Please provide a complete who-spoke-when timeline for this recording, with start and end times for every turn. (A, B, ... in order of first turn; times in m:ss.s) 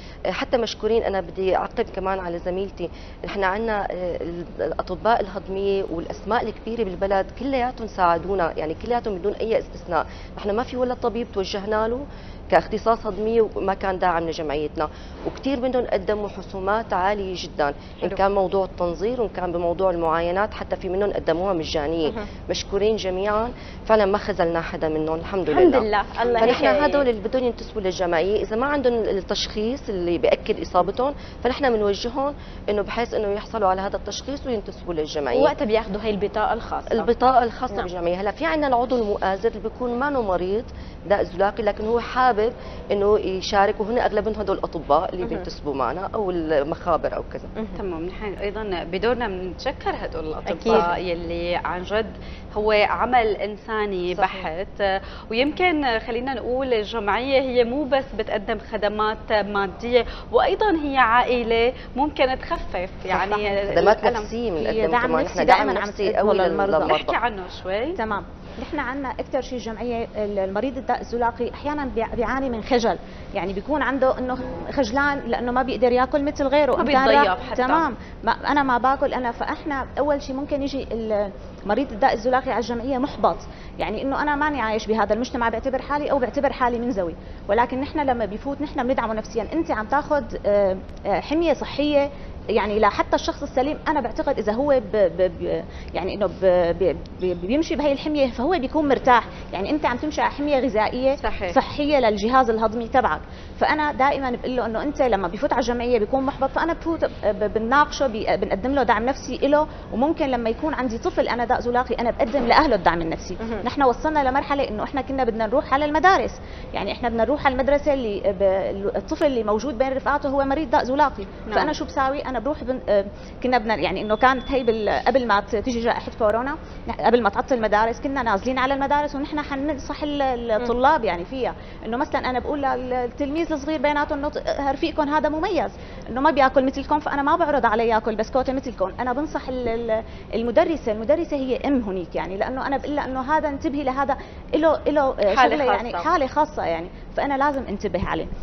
0:00.3-0:25.9 A
0:25.5-0:27.0 B
0:26.4-0:35.5 A
0:35.3-0:37.1 B
0:36.9-0:47.5 A
0:47.8-1:04.3 C
0:50.5-0:50.8 B
1:03.1-1:03.4 D
1:03.7-1:07.2 A
1:04.6-1:07.0 D
1:06.8-1:08.0 C
1:08.0-1:32.0 D
1:16.8-1:17.8 C
1:32.5-2:28.3 D
1:41.2-1:41.6 C
2:25.3-2:26.1 C